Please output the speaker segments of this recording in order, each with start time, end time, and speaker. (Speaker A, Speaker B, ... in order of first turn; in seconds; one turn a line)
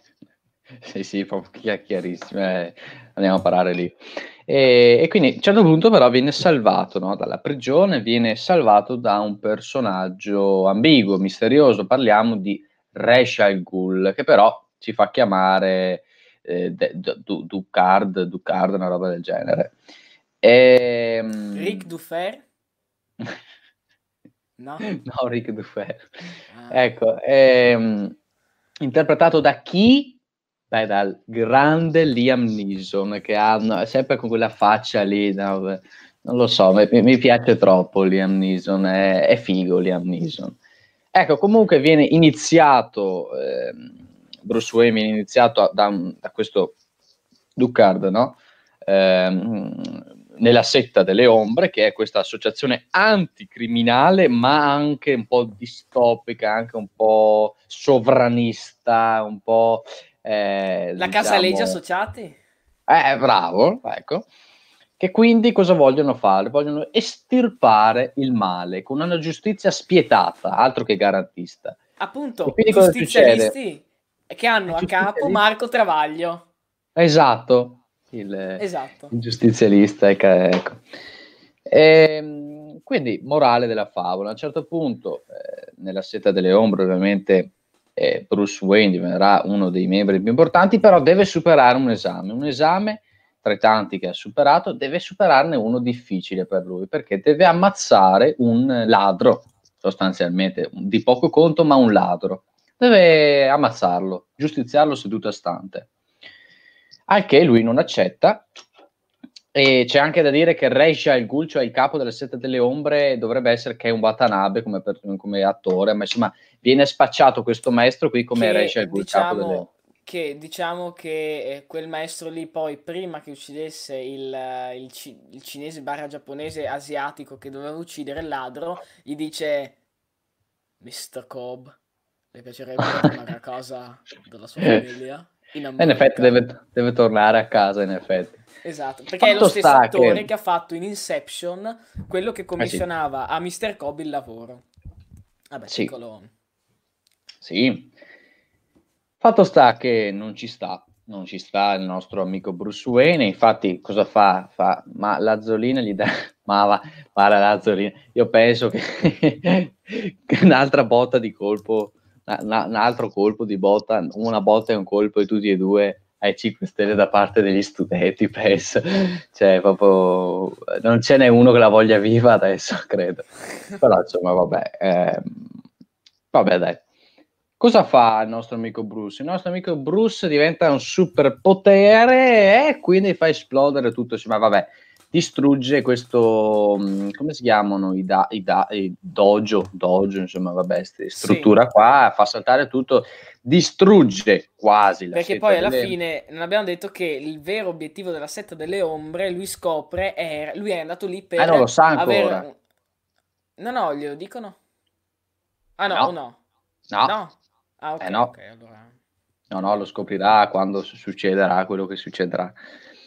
Speaker A: 0.8-19.7
Speaker A: 20.4-21.9
Speaker B: 21.5-22.4
Speaker B: 24.6-24.9
Speaker A: 24.8-28.1
Speaker B: 26.5-26.9
Speaker A: 28.8-30.2
Speaker A: 30.7-40.6
Speaker A: 41.1-46.8
Speaker A: 47.5-61.8
Speaker B: 61.0-62.4
Speaker A: 62.9-64.3
Speaker A: 65.0-71.8
Speaker B: 72.0-76.5
Speaker A: 72.4-73.5
Speaker A: 74.7-75.4
Speaker A: 77.0-80.8
Speaker B: 78.6-79.1
Speaker A: 81.7-105.9
Speaker A: 107.1-108.5
Speaker A: 109.5-119.7
Speaker B: 118.3-129.7
Speaker B: 130.8-131.7
Speaker B: 132.3-136.4
Speaker A: 135.8-138.4
Speaker B: 138.6-144.6
Speaker A: 139.2-140.3
Speaker B: 145.5-146.3
Speaker A: 145.7-145.9
Speaker A: 147.4-147.9
Speaker A: 149.2-173.3
Speaker A: 173.8-175.5
Speaker A: 176.3-176.8
Speaker A: 177.6-195.9
Speaker B: 191.2-191.5
Speaker B: 195.1-202.5
Speaker A: 201.4-202.4
Speaker B: 203.6-204.6
Speaker B: 205.8-206.4
Speaker A: 206.9-207.2
Speaker B: 207.0-208.9
Speaker A: 208.0-208.3
Speaker A: 209.5-212.6